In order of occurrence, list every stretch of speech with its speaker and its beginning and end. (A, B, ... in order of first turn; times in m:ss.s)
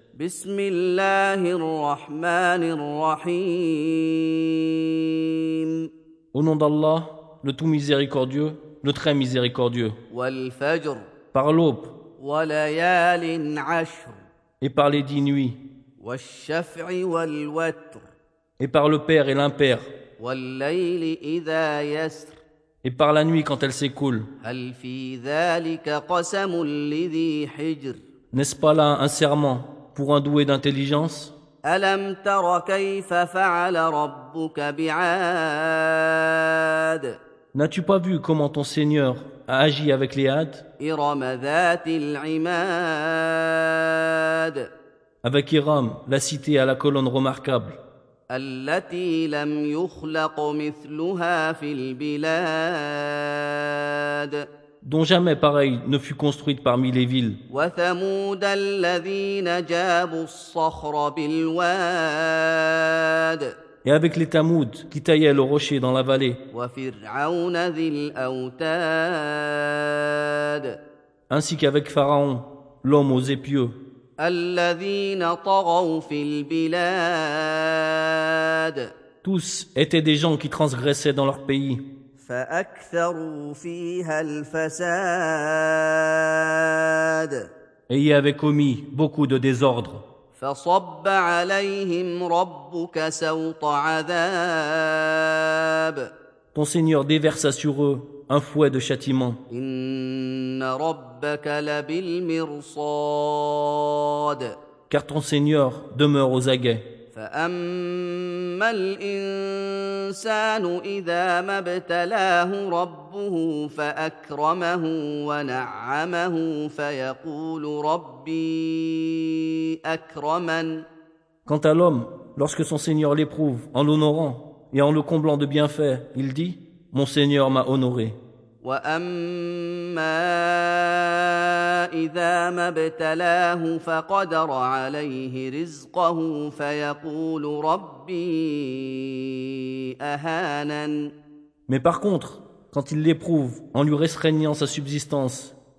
0:00.2-0:05.8 A
0:06.3-0:10.0 B
0:10.1-0:11.0 A
0:11.3-0:11.9 B
0:12.2-0:14.2 A
0:14.6-0:15.6 B
0:16.0-0:18.1 A
0:18.6-0:19.9 B
0:20.2-0:22.4 A
0:22.8-0:24.3 B
0:24.4-0:28.0 A
0:28.3-0:31.3 B
0:31.7-0:37.2 A
0:37.5-0:40.6 B
0:40.8-0:44.7 A
0:45.2-0:47.8 B
0:48.3-0:54.5 A
0:54.8-0:57.4 B
0:57.5-1:03.5 A
1:03.8-1:06.4 B
1:06.5-1:10.7 A
1:11.3-1:13.7 B
1:14.2-1:18.9 A
1:19.2-1:21.8 B
1:22.2-1:27.4 A
1:27.9-1:30.0 B
1:30.4-1:36.1 A
1:36.5-1:39.4 B
1:39.5-1:44.5 A
1:44.9-1:46.9 B
1:47.1-2:00.8 A
2:01.5-2:08.2 B
2:08.6-2:21.1 A
2:21.7-2:25.6 B